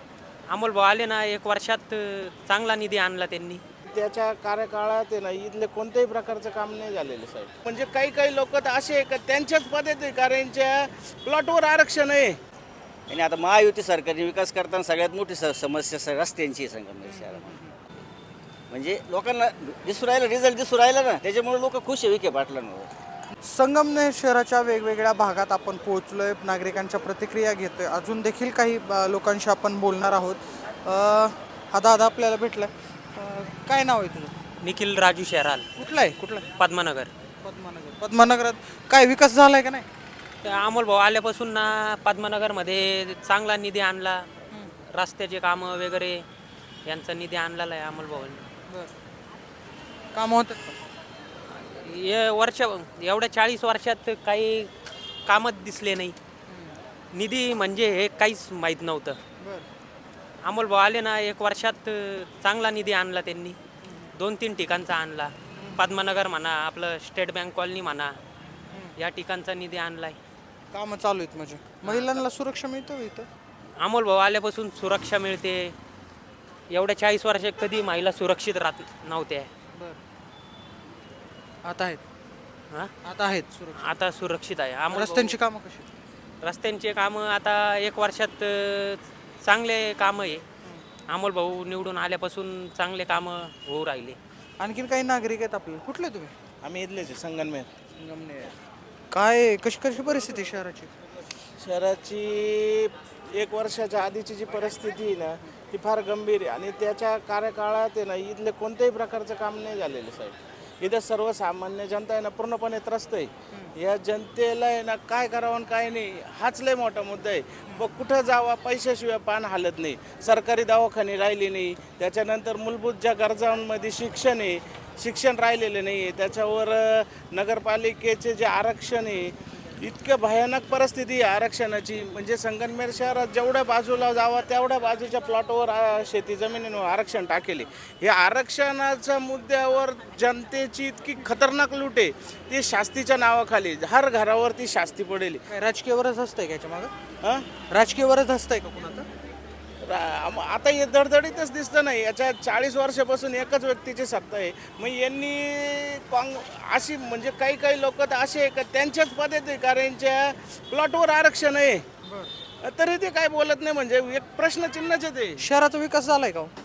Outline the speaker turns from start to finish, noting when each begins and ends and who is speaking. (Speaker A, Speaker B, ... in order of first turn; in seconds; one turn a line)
Speaker A: 0.5-3.6
Speaker B: 3.9-12.4
Speaker C: 13.1-17.5
Speaker D: 17.0-17.7
Speaker C: 18.7-22.9
Speaker D: 23.4-34.3
Speaker A: 34.6-35.6
Speaker D: 35.8-36.5
Speaker A: 36.6-37.1
Speaker D: 37.4-39.9
Speaker A: 40.4-44.2
Speaker A: 44.9-46.2
Speaker A: 46.9-48.4
Speaker D: 50.1-50.8
Speaker A: 51.5-54.7
Speaker A: 55.2-56.1
Speaker D: 56.5-56.8
Speaker A: 57.1-59.2
Speaker D: 59.4-59.7
Speaker A: 60.4-63.6
Speaker D: 63.8-64.1
Speaker A: 64.2-68.1
Speaker D: 65.5-65.8
Speaker D: 68.7-69.0
Speaker A: 69.0-70.2
Speaker D: 70.7-73.3
Speaker A: 71.8-72.2
Speaker A: 73.8-75.7
Speaker A: 76.7-79.5
Speaker D: 81.6-82.0
Speaker D: 83.0-83.9
Speaker A: 83.8-85.3
Speaker D: 84.9-85.9
Speaker A: 86.4-90.4
Speaker A: 91.1-94.2
Speaker D: 94.6-96.3
Speaker B: 96.6-97.7
Speaker D: 98.0-98.5
Speaker D: 99.1-100.9
Speaker B: 101.6-145.4
Speaker D: 117.7-117.9
Speaker D: 145.5-146.9
Speaker D: 147.7-149.1
Speaker B: 149.8-161.8
Speaker D: 162.1-162.3
Speaker B: 162.6-165.4
Speaker D: 165.4-166.5